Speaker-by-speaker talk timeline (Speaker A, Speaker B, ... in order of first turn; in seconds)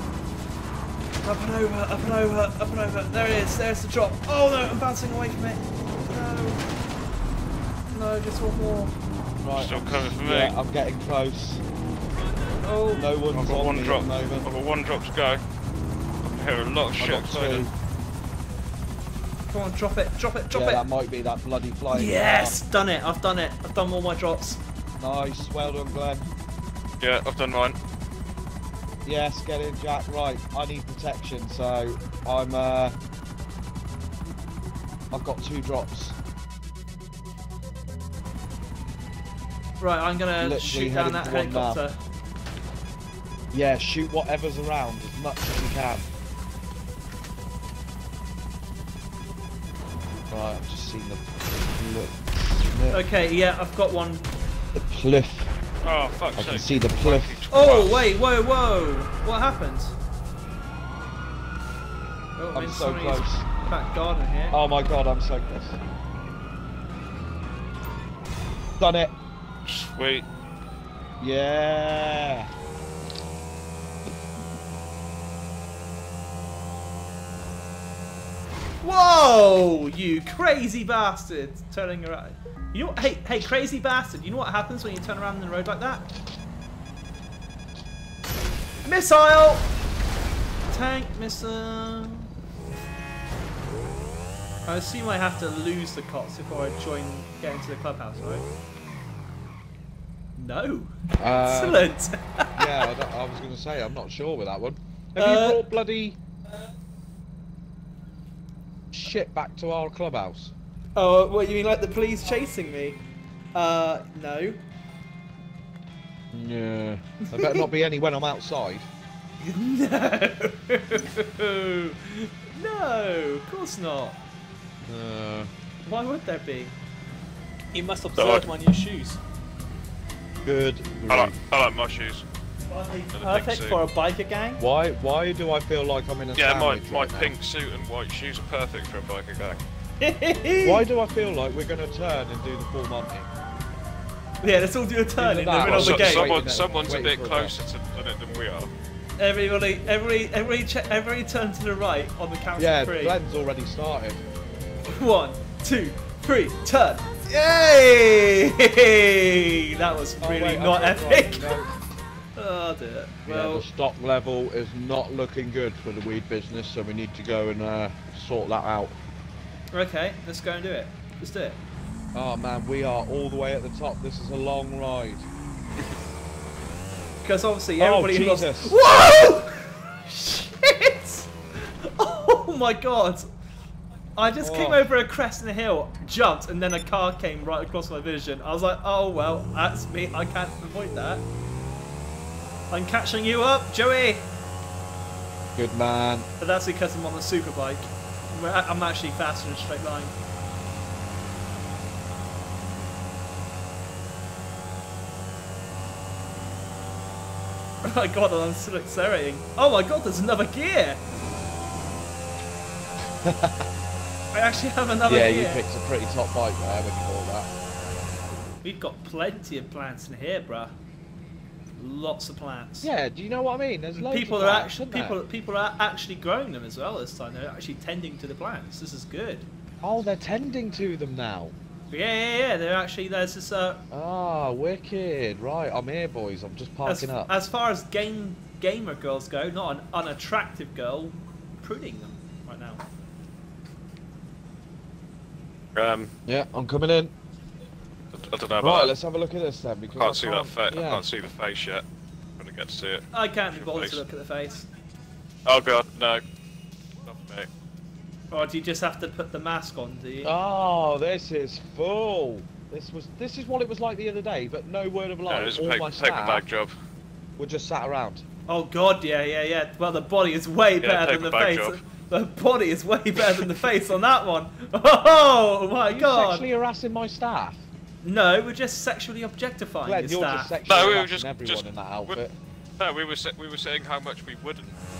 Speaker A: 1.2-6.6, 7.9-8.9, 12.6-13.1, 19.5-20.8, 21.9-24.6, 39.8-42.0, 52.9-54.2, 57.5-59.9, 62.4-64.6, 78.8-86.1, 88.8-89.7, 90.7-92.3, 94.7-98.4, 100.4-102.9, 105.2-105.8, 111.0-113.0, 113.5-114.6, 117.2-117.6, 119.4-124.2, 125.8-126.7, 127.7-129.2, 132.7-134.6, 140.0-140.8, 144.4-146.3, 149.2-153.2, 154.9-161.6, 162.3-163.6, 169.7-171.6, 177.2-183.3, 184.2-191.2, 192.7-194.3, 196.4-200.1, 207.8-211.0, 214.3-215.6, 218.6-220.7, 221.8-222.9, 223.9-229.5, 231.9-233.8, 236.8-242.8, 253.1-254.7, 258.3-260.3, 268.5-276.5, 278.0-280.5
Speaker B: 9.4-11.6, 12.9-14.4, 17.0-17.7, 20.5-22.6, 25.0-26.3, 29.0-32.9, 35.1-36.2, 40.4-41.8, 43.5-46.0, 50.3-53.0, 54.7-55.5, 56.4-57.4, 62.5-63.4, 64.5-65.8, 68.8-69.1, 71.2-72.5, 101.2-101.9, 102.5-106.2, 108.9-110.5, 116.3-118.9, 124.8-125.5, 130.4-131.3, 134.6-137.3, 140.6-143.3, 145.2-147.6, 152.6-154.2, 160.2-161.7, 163.2-169.0, 172.1-175.2, 177.8-178.8, 184.4-184.9, 195.6-196.3, 213.2-213.6, 215.1-217.5, 222.8-225.2, 229.8-231.5, 233.9-237.3, 246.2-247.1, 248.6-251.0, 260.2-266.4, 267.4-268.2, 275.9-277.6, 279.8-282.3
Speaker C: 9.6-10.5, 13.3-15.4, 16.3-17.7, 27.0-27.8, 55.8-58.1, 69.7-70.2, 128.2-128.5, 131.1-132.2, 133.1-133.8, 136.3-139.6, 145.6-148.7, 245.7-246.1, 248.1-248.9, 249.9-251.8, 252.4-254.0, 255.4-256.2, 257.0-257.5, 265.3-266.7, 270.8-271.8, 280.7-282.2, 282.8-284.7